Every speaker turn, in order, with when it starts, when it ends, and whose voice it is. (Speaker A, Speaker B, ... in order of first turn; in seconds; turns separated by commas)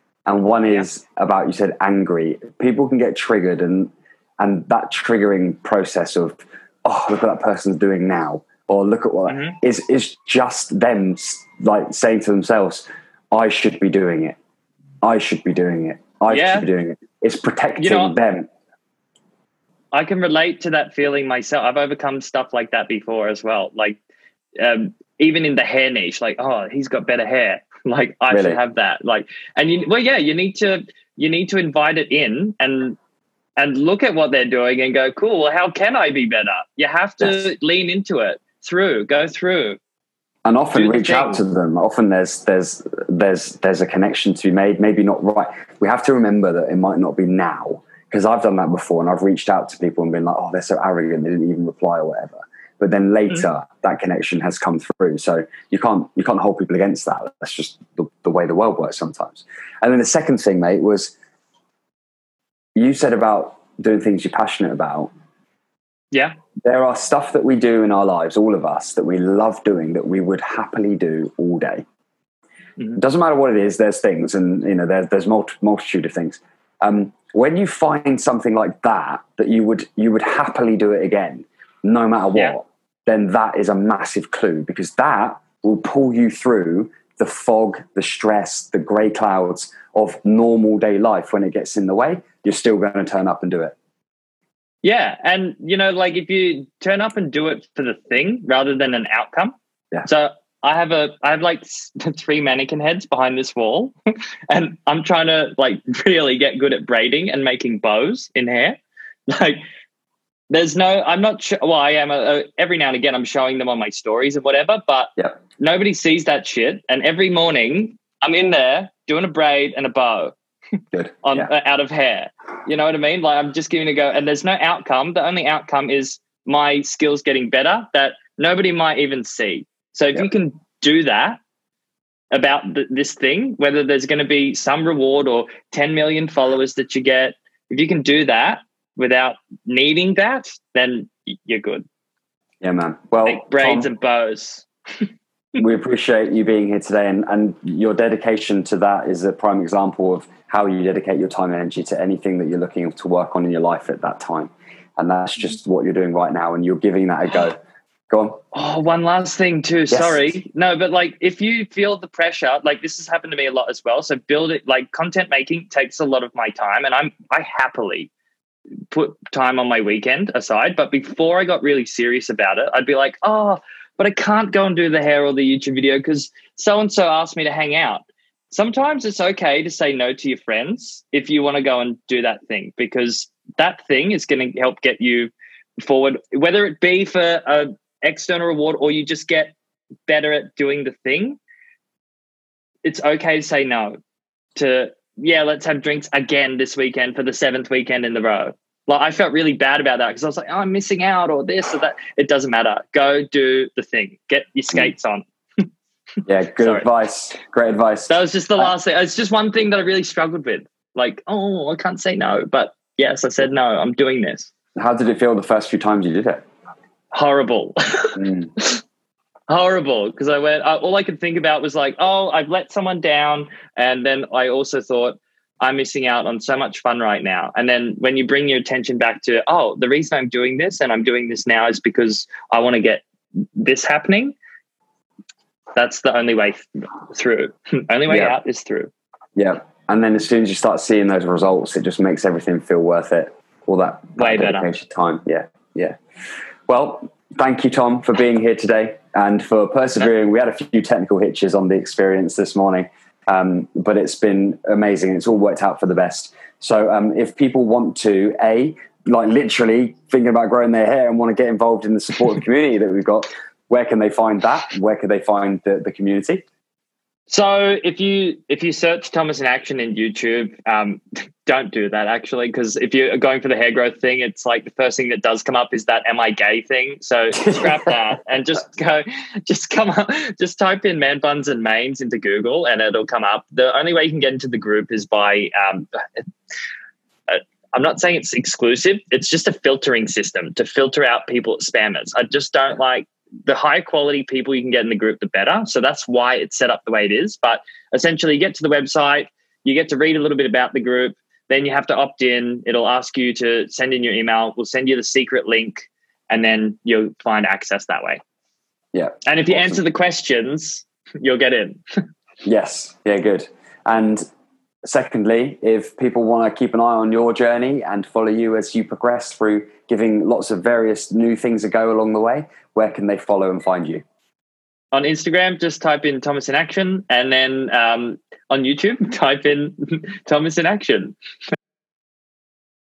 Speaker A: 0.3-14.4, Speaker B: 9.3-9.6, Speaker A: 15.0-18.5, Speaker B: 16.3-16.7, Speaker B: 17.8-18.1, Speaker B: 19.9-24.0, Speaker B: 24.6-33.0, Speaker A: 28.3-28.6, Speaker B: 33.6-39.8, Speaker A: 40.5-61.1, Speaker B: 40.8-41.4, Speaker A: 62.8-65.1, Speaker A: 66.7-71.8, Speaker A: 73.0-93.8, Speaker B: 94.8-99.5, Speaker B: 100.0-103.9, Speaker B: 104.5-109.6, Speaker B: 110.5-120.3, Speaker A: 120.9-121.5, Speaker B: 121.2-131.4, Speaker B: 132.3-141.8, Speaker A: 142.6-143.9, Speaker B: 143.2-145.1, Speaker A: 145.6-158.4, Speaker B: 158.5-168.1, Speaker A: 159.9-160.2, Speaker B: 168.9-189.6, Speaker B: 190.1-191.4, Speaker B: 192.8-194.0, Speaker B: 194.6-205.7, Speaker A: 206.2-208.7, Speaker B: 208.1-214.5, Speaker A: 214.8-216.4, Speaker B: 217.1-218.8, Speaker A: 218.1-218.5, Speaker B: 219.5-234.3, Speaker B: 235.8-238.9, Speaker A: 238.1-238.3, Speaker A: 239.4-246.0, Speaker B: 244.2-244.7, Speaker A: 246.7-266.4, Speaker B: 267.3-286.3, Speaker A: 277.4-277.7, Speaker B: 287.3-308.2, Speaker A: 308.9-309.8, Speaker B: 309.3-311.8, Speaker A: 312.4-314.3, Speaker A: 314.8-324.0, Speaker B: 324.9-331.2